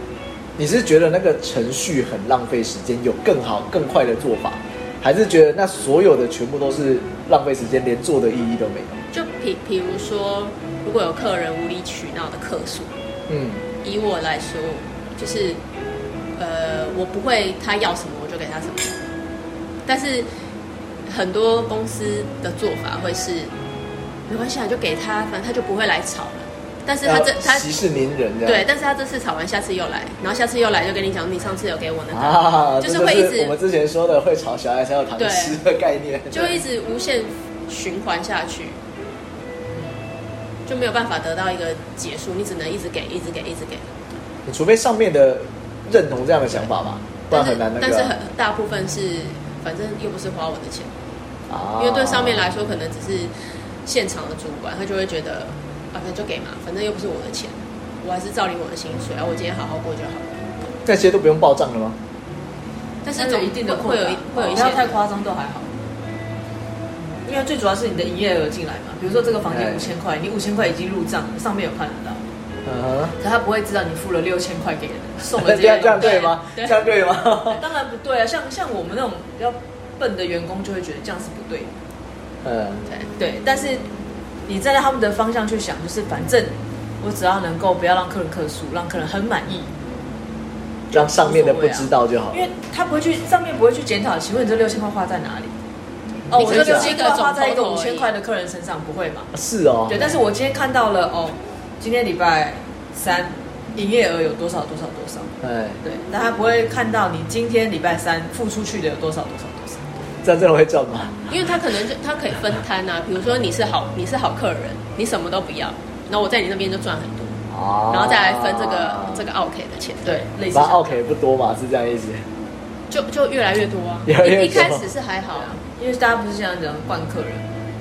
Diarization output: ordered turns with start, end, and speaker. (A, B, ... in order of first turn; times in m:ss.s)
0:00.6-0:09.0 A
0:09.1-0:12.9 B
0:13.3-0:13.6 A
0:13.8-0:15.6 B
0:16.4-0:19.0 B
0:19.8-0:20.3 B
0:21.0-0:23.5 B
0:24.3-0:27.7 B
0:27.0-0:28.7 A
0:28.4-0:33.6 B
0:32.1-0:36.6 A
0:35.2-0:35.6 B
0:36.3-0:38.8 B
0:39.7-0:40.0 C
0:40.6-0:44.0 B
0:44.4-0:48.1 A
0:47.3-0:51.0 B
0:51.5-0:52.5 A
0:51.8-1:00.5 B
1:00.8-1:02.0 A
1:03.0-1:05.0 B
1:03.1-1:05.7 C
1:07.1-1:12.2 C
1:09.5-1:09.9 A
1:12.6-1:13.1 A
1:13.2-1:16.4 C
1:15.4-1:17.6 A
1:15.9-1:16.7 B
1:17.5-1:21.7 C
1:22.4-1:22.8 A
1:23.2-1:23.8 C
1:24.4-1:29.7 C
1:30.9-1:32.4 A
1:30.9-1:35.5 C
1:36.3-1:39.3 C
1:36.3-1:36.9 A
1:36.3-1:38.1 B
1:39.3-1:40.0 A
1:39.9-1:49.9 C
1:45.4-1:45.8 A
1:50.2-1:51.3 A
1:51.3-2:00.2 B
1:57.5-1:59.2 A
2:00.0-2:01.0 C
2:00.5-2:02.2 A
2:02.9-2:05.6 B
2:04.0-2:04.9 A
2:05.3-2:07.5 C